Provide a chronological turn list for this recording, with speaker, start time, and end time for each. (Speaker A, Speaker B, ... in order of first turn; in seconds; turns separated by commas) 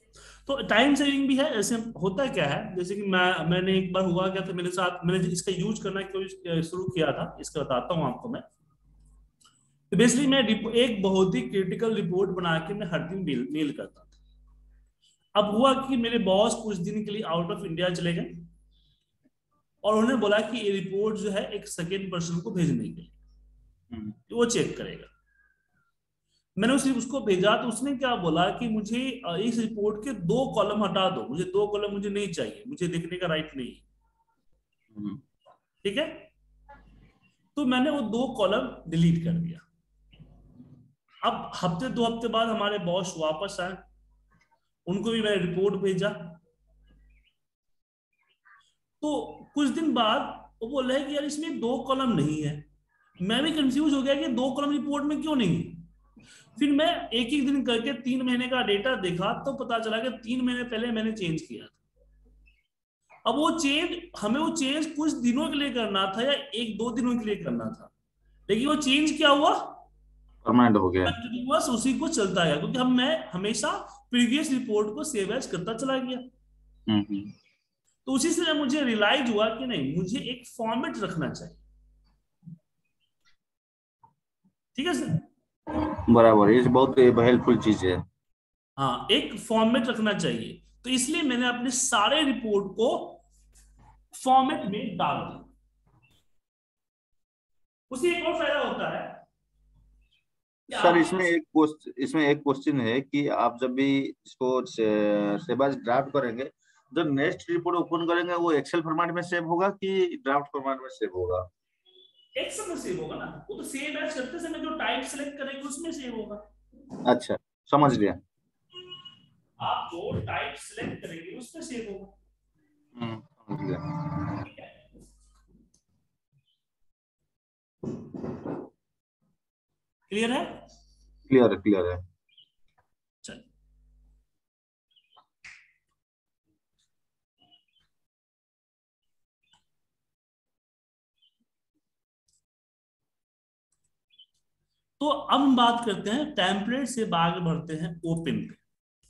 Speaker A: 0.4-8.4, Speaker A: 9.9-14.1, Speaker A: 15.3-18.5, Speaker A: 19.8-23.1, Speaker A: 24.3-25.1, Speaker A: 26.6-33.8, Speaker B: 34.9-35.2, Speaker A: 35.8-36.3, Speaker A: 37.5-39.6, Speaker A: 41.2-43.8, Speaker A: 44.9-46.4, Speaker A: 49.0-52.6, Speaker A: 53.2-55.8, Speaker A: 56.5-61.8, Speaker A: 63.2-67.9, Speaker A: 68.5-69.8, Speaker B: 70.4-71.2, Speaker A: 71.0-76.2, Speaker B: 76.9-77.3, Speaker A: 78.0-81.6, Speaker A: 84.8-85.2, Speaker B: 85.7-88.0, Speaker A: 88.8-93.2, Speaker A: 94.1-95.5, Speaker A: 97.9-99.2, Speaker A: 100.7-101.3, Speaker B: 100.7-111.5, Speaker A: 112.4-116.4, Speaker B: 117.0-118.2, Speaker A: 119.6-122.1, Speaker B: 122.9-124.5, Speaker A: 130.1-130.6, Speaker B: 131.3-132.0, Speaker A: 145.0-148.6